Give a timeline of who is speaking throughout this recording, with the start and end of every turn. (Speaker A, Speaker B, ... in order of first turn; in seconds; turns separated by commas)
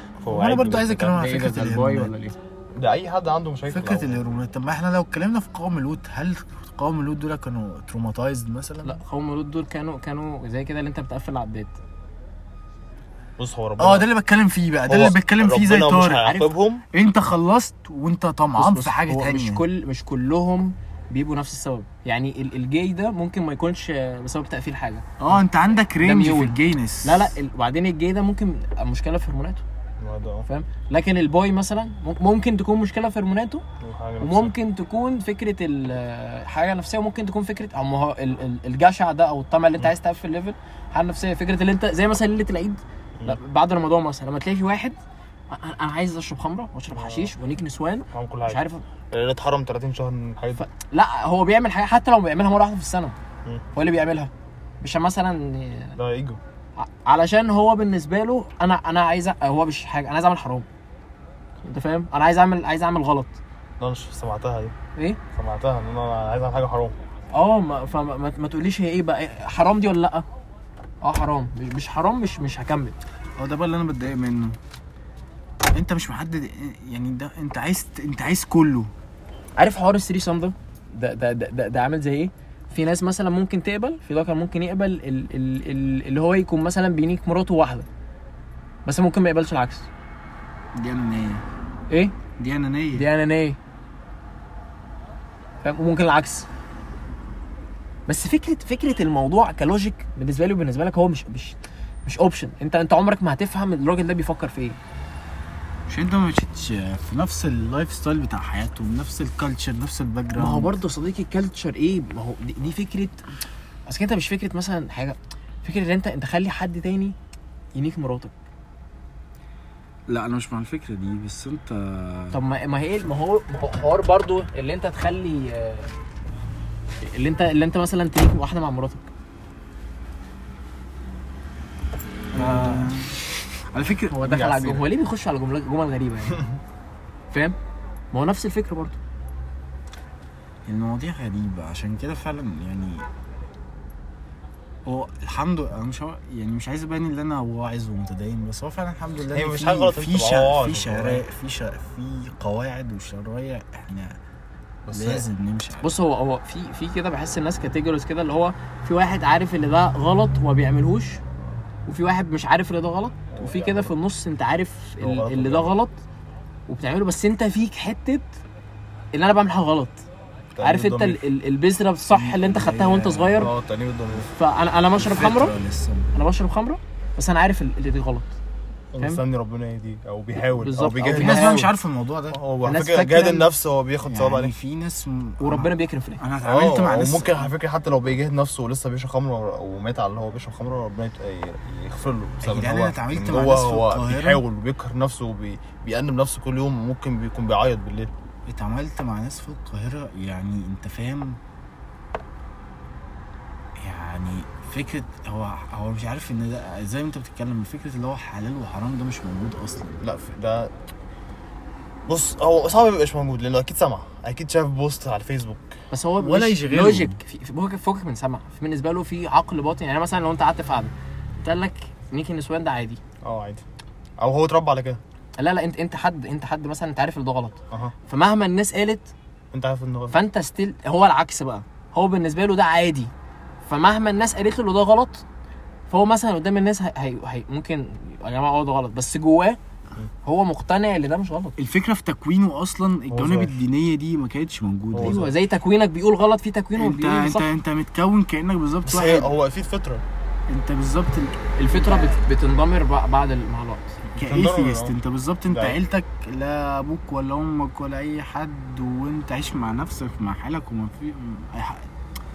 Speaker A: 0.2-1.2, Speaker B: 0.3-2.1, Speaker C: 1.1-2.4, Speaker A: 2.8-4.2, Speaker B: 3.7-9.0, Speaker C: 8.8-11.8, Speaker A: 13.4-14.1, Speaker B: 13.8-16.3, Speaker A: 14.9-16.8, Speaker C: 16.2-16.5, Speaker B: 16.9-19.6, Speaker C: 18.6-25.1, Speaker B: 25.2-27.4, Speaker C: 26.0-29.6, Speaker A: 30.0-30.5, Speaker C: 30.5-33.6, Speaker A: 33.8-34.5, Speaker C: 34.2-45.0, Speaker C: 45.5-48.8, Speaker A: 46.9-47.3, Speaker A: 48.1-50.7, Speaker C: 50.6-53.1, Speaker C: 53.7-56.0, Speaker A: 56.0-56.4, Speaker C: 56.8-60.7, Speaker C: 61.6-63.4, Speaker A: 63.8-64.8, Speaker A: 65.3-67.0, Speaker C: 67.3-70.2, Speaker C: 71.0-73.0, Speaker B: 73.4-74.6, Speaker B: 75.7-78.9, Speaker C: 79.6-87.9, Speaker C: 88.8-89.9, Speaker B: 90.8-91.5, Speaker C: 91.9-92.2, Speaker B: 92.4-93.1, Speaker C: 92.9-93.6, Speaker C: 95.6-96.5, Speaker C: 98.1-104.8, Speaker B: 105.9-110.7, Speaker C: 110.4-113.2, Speaker C: 113.9-117.2, Speaker C: 117.8-118.3, Speaker B: 120.1-122.4, Speaker C: 122.3-125.9, Speaker C: 127.1-129.1, Speaker B: 132.3-134.8, Speaker C: 134.1-136.4, Speaker A: 134.3-134.8, Speaker C: 138.1-139.0, Speaker B: 140.7-143.1, Speaker B: 144.9-154.2, Speaker A: 149.3-151.2, Speaker A: 154.9-155.2, Speaker B: 154.9-155.9, Speaker C: 155.8-161.2, Speaker C: 161.9-166.0, Speaker A: 163.3-163.9, Speaker A: 165.0-165.8, Speaker C: 166.7-168.3, Speaker C: 169.1-170.0, Speaker A: 170.6-171.2, Speaker C: 170.6-173.5, Speaker B: 172.1-173.5, Speaker A: 173.4-174.3, Speaker C: 174.3-175.5, Speaker B: 175.0-176.1, Speaker C: 176.1-178.3, Speaker A: 178.9-181.6, Speaker C: 180.6-181.7, Speaker B: 181.0-182.4, Speaker A: 182.3-184.5, Speaker C: 182.6-183.5, Speaker B: 184.1-187.5, Speaker C: 185.4-186.2, Speaker A: 186.4-198.1, Speaker B: 192.4-194.4, Speaker B: 198.5-201.4, Speaker B: 203.8-210.0, Speaker A: 210.0-210.7, Speaker A: 212.1-215.8, Speaker C: 215.9-223.0, Speaker B: 216.2-217.2, Speaker A: 223.2-223.7, Speaker A: 224.2-225.0, Speaker C: 225.4-229.1, Speaker A: 229.5-230.2, Speaker C: 230.1-233.1, Speaker C: 233.7-235.2, Speaker C: 235.9-239.6, Speaker C: 240.2-241.6, Speaker B: 241.6-245.3, Speaker A: 243.1-243.6, Speaker A: 244.9-245.3, Speaker C: 245.0-247.5, Speaker B: 246.8-249.3, Speaker A: 248.9-250.0, Speaker B: 250.5-252.2, Speaker C: 251.6-254.0, Speaker A: 254.1-255.0, Speaker B: 254.1-261.9, Speaker A: 255.5-255.8